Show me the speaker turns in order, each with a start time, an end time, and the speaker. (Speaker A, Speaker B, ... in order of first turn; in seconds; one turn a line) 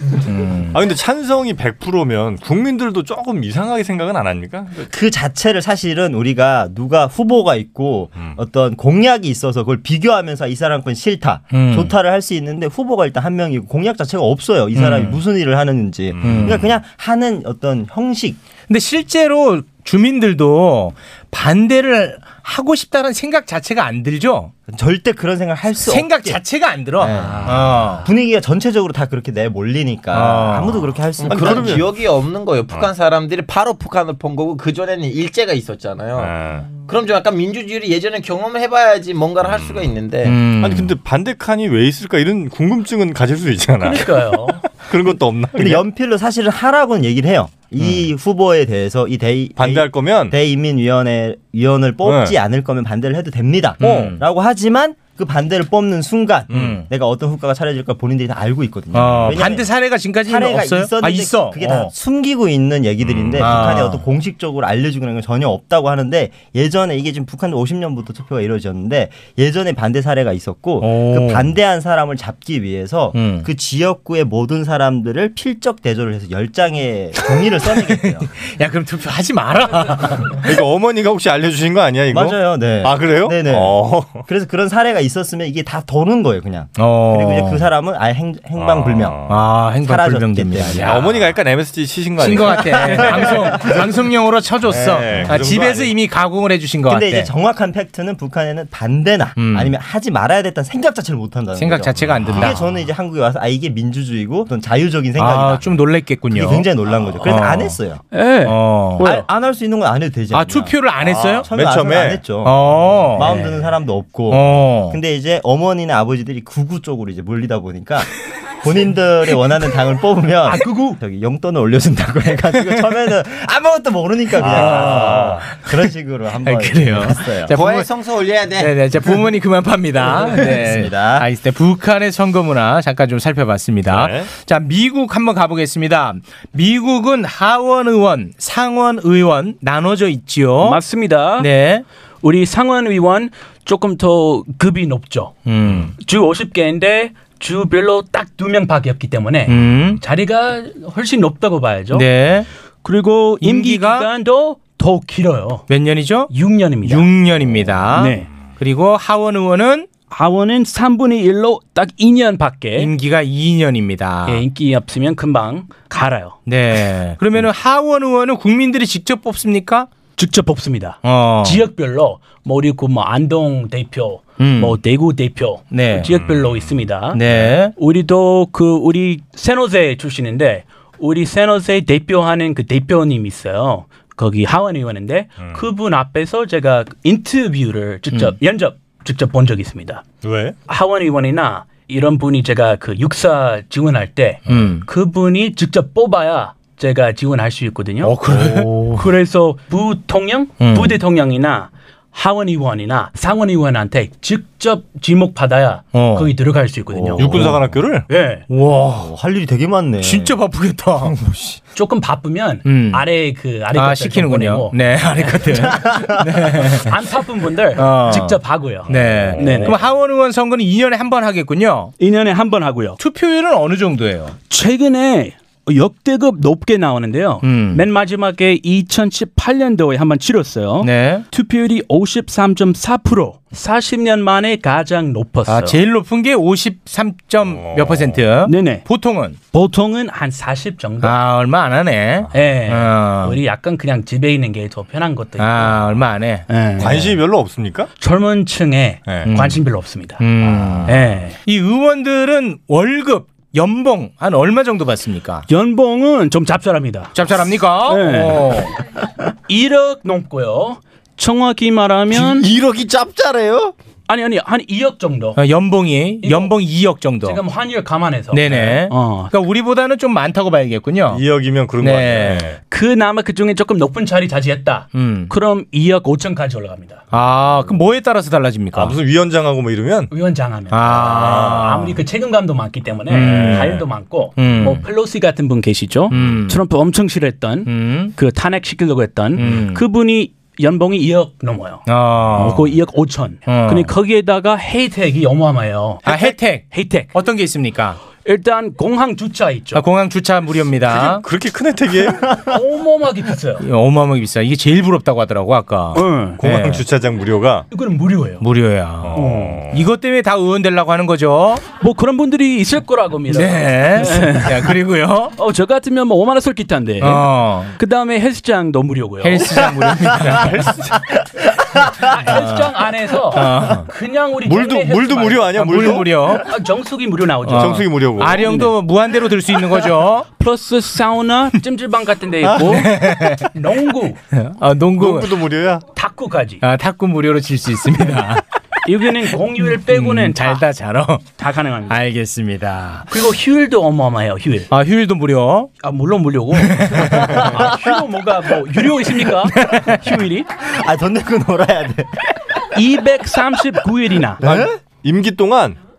Speaker A: 0.2-0.8
Speaker B: 0.7-4.9
Speaker C: 4.9-18.4
Speaker A: 11.5-11.9
Speaker A: 14.7-15.2
Speaker B: 16.1-16.6
Speaker A: 16.2-16.6
Speaker A: 18.7-24.5
Speaker C: 24.7-26.4
Speaker A: 25.8-28.1
Speaker C: 27.0-31.8
Speaker A: 30.1-30.8
Speaker D: 31.2-40.4
Speaker B: 31.2-31.9
Speaker B: 36.1-36.7
Speaker B: 39.4-39.9
Speaker A: 40.2-41.0
Speaker B: 40.6-44.1
Speaker E: 43.8-44.6
Speaker B: 44.8-45.8
Speaker C: 45.5-59.7
Speaker B: 49.6-50.4
Speaker B: 52.0-52.3
Speaker A: 53.8-54.2
Speaker B: 56.5-56.8
Speaker A: 56.5-56.8
Speaker A: 58.9-61.9
Speaker B: 59.1-59.4
Speaker C: 60.2-78.3
Speaker B: 63.0-63.6
Speaker A: 63.4-64.0
Speaker A: 70.8-71.5
Speaker A: 73.1-73.5
Speaker A: 78.3-80.5
Speaker B: 80.4-84.2
Speaker C: 82.1-89.2
Speaker A: 86.8-87.7
Speaker B: 88.5-89.4
Speaker A: 89.3-91.3
Speaker C: 89.8-91.0
Speaker B: 90.8-93.7
Speaker A: 92.2-97.3
Speaker B: 94.6-95.9
Speaker C: 96.9-108.0
Speaker A: 99.4-99.7
Speaker A: 101.6-102.6
Speaker B: 102.1-102.5
Speaker A: 105.2-106.7
Speaker A: 107.2-107.8
Speaker E: 108.1-109.2
Speaker A: 108.4-109.0
Speaker C: 109.0-118.1
Speaker A: 110.3-111.5
Speaker B: 111.0-112.3
Speaker A: 112.4-113.5
Speaker A: 114.3-115.0
Speaker C: 118.6-127.5
Speaker E: 120.4-121.0
Speaker B: 124.4-125.4
Speaker A: 124.4-125.5
Speaker A: 126.4-127.8
Speaker D: 127.5-128.7
Speaker A: 128.6-140.8
Speaker C: 130.0-131.3
Speaker B: 133.9-134.3
Speaker E: 140.6-141.5
Speaker A: 141.4-141.8
Speaker E: 142.2-145.3
Speaker A: 145.5-145.9
Speaker E: 146.0-152.1
Speaker A: 149.5-150.0
Speaker A: 151.9-152.5
Speaker E: 152.8-155.7
Speaker A: 153.4-154.1
Speaker A: 155.7-156.3
Speaker E: 156.3-157.1
Speaker A: 156.8-159.9
Speaker E: 157.9-158.3
Speaker E: 160.1-162.9
Speaker A: 162.8-164.4
Speaker E: 164.2-166.4
Speaker A: 166.4-169.9
Speaker E: 170.2-177.2
Speaker A: 171.0-171.6
Speaker A: 174.4-174.8
Speaker A: 175.7-176.1
Speaker B: 176.0-177.5
Speaker A: 177.1-177.7
Speaker E: 177.7-190.0
Speaker B: 190.2-190.6
Speaker E: 190.7-207.4
Speaker A: 194.5-194.8
Speaker A: 198.0-199.1
Speaker A: 200.6-201.0
Speaker A: 205.9-206.3
Speaker A: 207.0-207.5
Speaker B: 207.2-208.1
Speaker E: 208.1-208.4
Speaker A: 208.5-209.1
Speaker C: 209.0-210.4
Speaker A: 210.0-211.2
Speaker C: 211.0-211.6
Speaker E: 211.7-214.8
Speaker A: 212.7-213.0
Speaker A: 213.7-216.9
Speaker C: 215.7-216.1
Speaker E: 216.8-219.8
Speaker A: 217.8-221.9
Speaker B: 219.4-219.6
Speaker E: 222.0-223.0
Speaker A: 223.0-224.3
Speaker E: 224.5-235.8
Speaker A: 227.4-227.8
Speaker A: 230.8-231.2
Speaker A: 235.5-239.4
Speaker B: 237.4-238.2
Speaker E: 238.4-238.8
Speaker E: 239.5-241.2
Speaker A: 241.0-243.4
Speaker E: 242.3-245.8
Speaker A: 245.4-247.1
Speaker E: 246.5-247.0
Speaker B: 246.8-247.9
Speaker E: 248.0-250.2
Speaker A: 249.2-249.6
Speaker A: 250.2-255.4
Speaker E: 250.8-251.4
Speaker E: 255.5-257.1
Speaker A: 257.1-258.7
Speaker E: 257.9-258.5
Speaker E: 259.5-262.4
Speaker D: 262.1-263.7
Speaker E: 264.1-265.4
Speaker A: 265.4-267.4
Speaker E: 266.2-266.5
Speaker E: 267.2-269.3
Speaker A: 268.3-271.2
Speaker B: 271.1-272.6
Speaker A: 271.8-272.5
Speaker E: 272.7-277.0
Speaker A: 274.9-275.3
Speaker A: 277.1-279.0
Speaker B: 278.7-280.1
Speaker E: 280.1-297.1
Speaker A: 280.7-282.0
Speaker B: 280.9-281.7
Speaker A: 283.1-283.8
Speaker B: 283.2-283.8
Speaker A: 284.4-284.8
Speaker A: 286.1-286.6
Speaker A: 287.6-288.1
Speaker A: 289.4-289.8
Speaker A: 291.9-292.7
Speaker A: 293.5-293.9
Speaker A: 296.1-298.0
Speaker E: 298.2-299.8
Speaker A: 299.7-301.2
Speaker B: 300.9-302.4
Speaker E: 302.4-303.6
Speaker A: 303.6-306.8
Speaker E: 305.9-306.4
Speaker B: 306.4-307.6
Speaker E: 307.7-308.4
Speaker A: 308.4-311.6
Speaker B: 309.0-309.9
Speaker E: 309.1-309.6
Speaker E: 311.8-314.8
Speaker A: 313.3-315.3
Speaker E: 315.4-319.5
Speaker A: 317.0-317.7
Speaker A: 319.2-320.7
Speaker B: 320.3-321.0
Speaker E: 321.9-328.7
Speaker A: 322.2-322.6
Speaker A: 323.3-323.9
Speaker B: 324.4-326.2
Speaker A: 325.6-326.5
Speaker A: 327.4-330.3
Speaker B: 327.5-328.5
Speaker E: 330.4-334.2
Speaker A: 332.5-333.5
Speaker A: 334.3-335.4
Speaker B: 335.0-335.8
Speaker E: 335.9-336.6
Speaker A: 336.6-338.4
Speaker E: 338.8-340.6
Speaker A: 339.6-341.3
Speaker E: 341.4-342.0
Speaker A: 341.9-343.1
Speaker E: 343.1-344.7
Speaker A: 344.7-345.7
Speaker E: 345.8-350.5
Speaker A: 346.6-347.5
Speaker A: 349.6-350.0
Speaker C: 350.6-352.2
Speaker E: 352.7-354.4
Speaker C: 354.4-354.7
Speaker B: 354.4-355.8